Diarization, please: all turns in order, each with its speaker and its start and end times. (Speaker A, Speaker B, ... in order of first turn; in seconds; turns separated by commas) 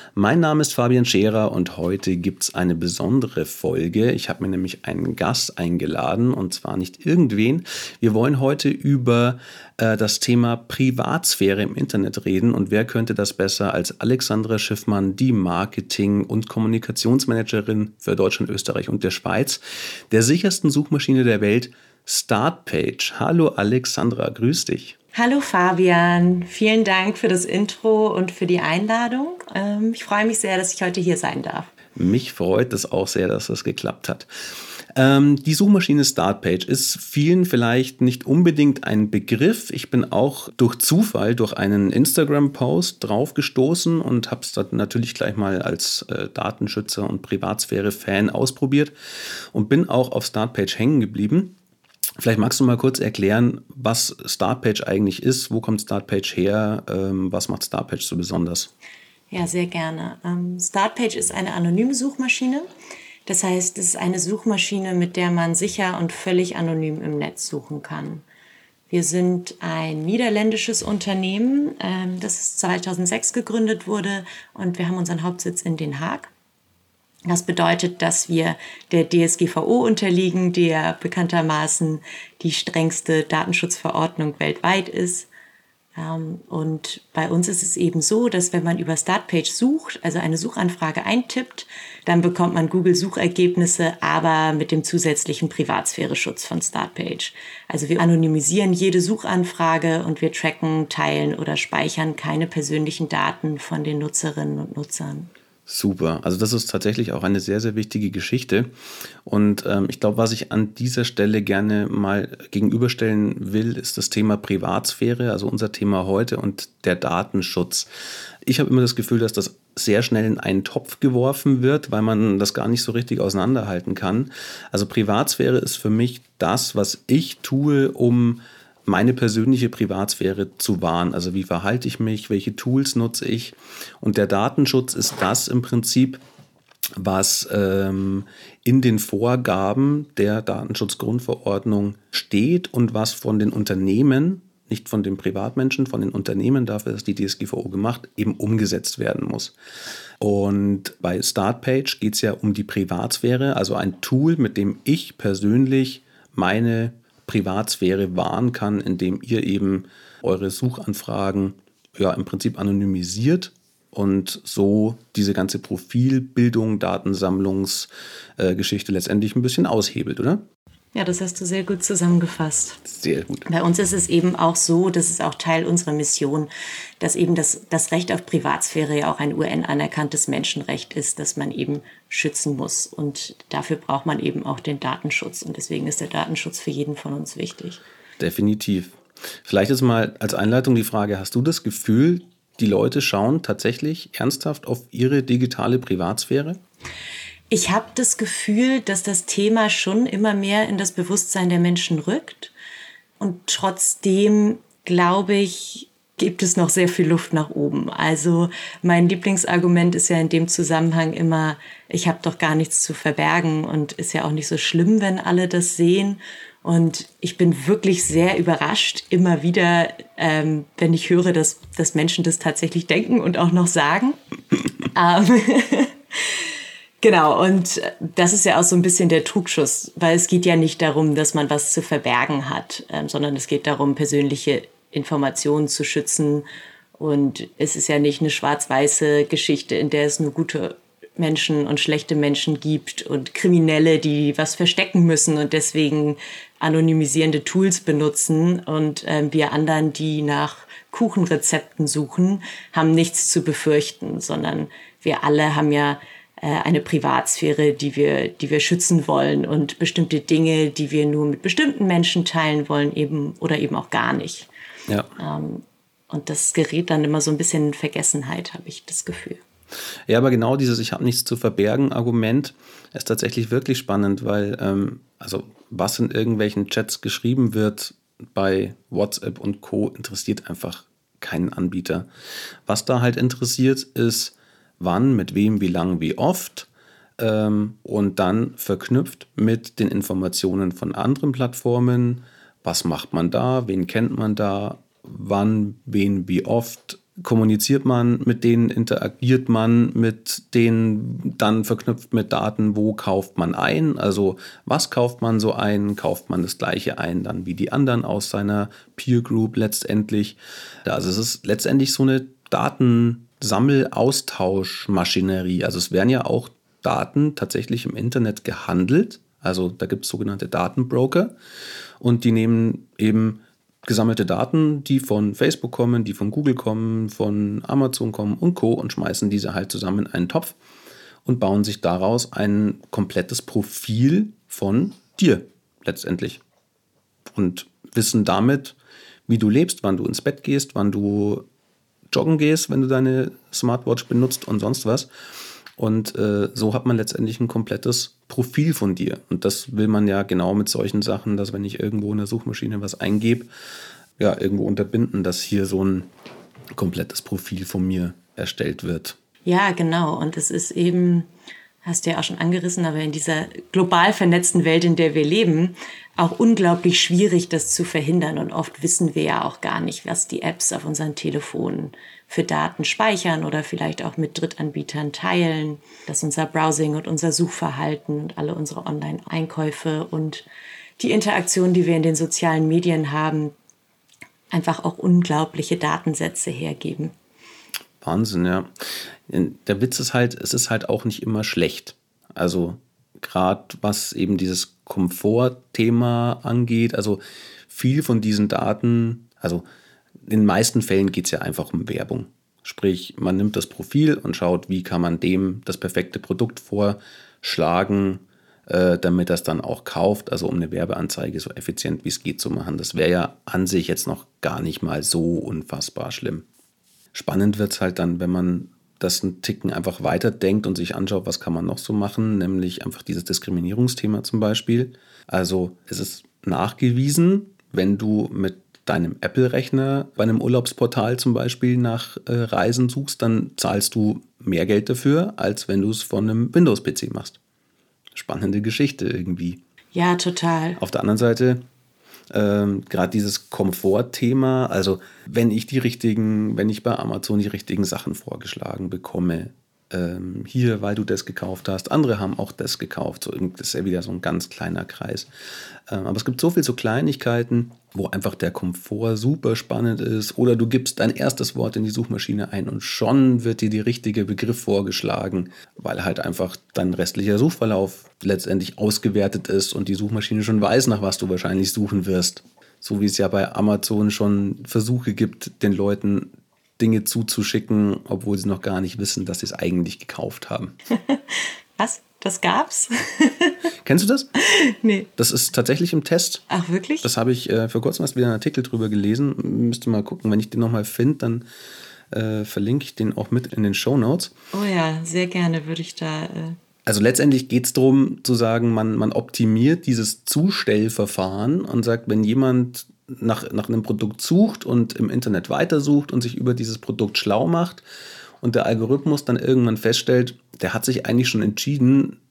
Speaker A: 0.1-25.0, Speaker B: 25.1-31.7, Speaker A: 31.9-34.3, Speaker A: 34.8-48.9, Speaker A: 49.5-51.5, Speaker A: 52.2-58.7, Speaker B: 59.3-62.7, Speaker B: 63.3-68.2, Speaker B: 68.9-76.3, Speaker B: 77.3-85.3, Speaker B: 86.0-105.3, Speaker A: 105.7-108.7, Speaker A: 109.2-117.9, Speaker A: 118.5-136.2, Speaker A: 137.0-149.6, Speaker A: 150.2-170.4, Speaker B: 170.9-172.8, Speaker A: 172.8-173.5, Speaker B: 173.5-187.8, Speaker A: 188.2-196.6, Speaker B: 197.5-202.5, Speaker B: 203.2-224.2, Speaker B: 224.9-226.5, Speaker B: 227.0-236.4, Speaker B: 237.0-264.5, Speaker B: 265.2-269.4, Speaker A: 270.1-282.1, Speaker A: 282.7-286.7, Speaker A: 287.2-321.4, Speaker A: 322.0-330.6, Speaker A: 331.2-336.4, Speaker A: 337.3-338.8, Speaker A: 339.3-341.5, Speaker A: 342.1-345.1, Speaker A: 345.8-353.5, Speaker A: 354.2-356.1, Speaker A: 356.8-359.2, Speaker B: 359.5-361.3, Speaker B: 361.8-380.5, Speaker B: 381.0-383.6, Speaker B: 384.5-387.1, Speaker A: 388.0-399.6, Speaker A: 400.3-416.5, Speaker A: 417.1-437.4, Speaker A: 438.1-439.6, Speaker B: 439.9-440.8, Speaker A: 440.8-441.6, Speaker A: 442.3-455.3, Speaker A: 455.9-480.8, Speaker B: 480.9-483.6, Speaker A: 483.8-484.3, Speaker B: 484.4-485.1, Speaker A: 485.2-486.4, Speaker B: 486.5-487.1, Speaker A: 487.0-491.4, Speaker A: 492.1-494.3, Speaker B: 494.5-496.6, Speaker A: 496.9-507.8, Speaker A: 508.4-512.2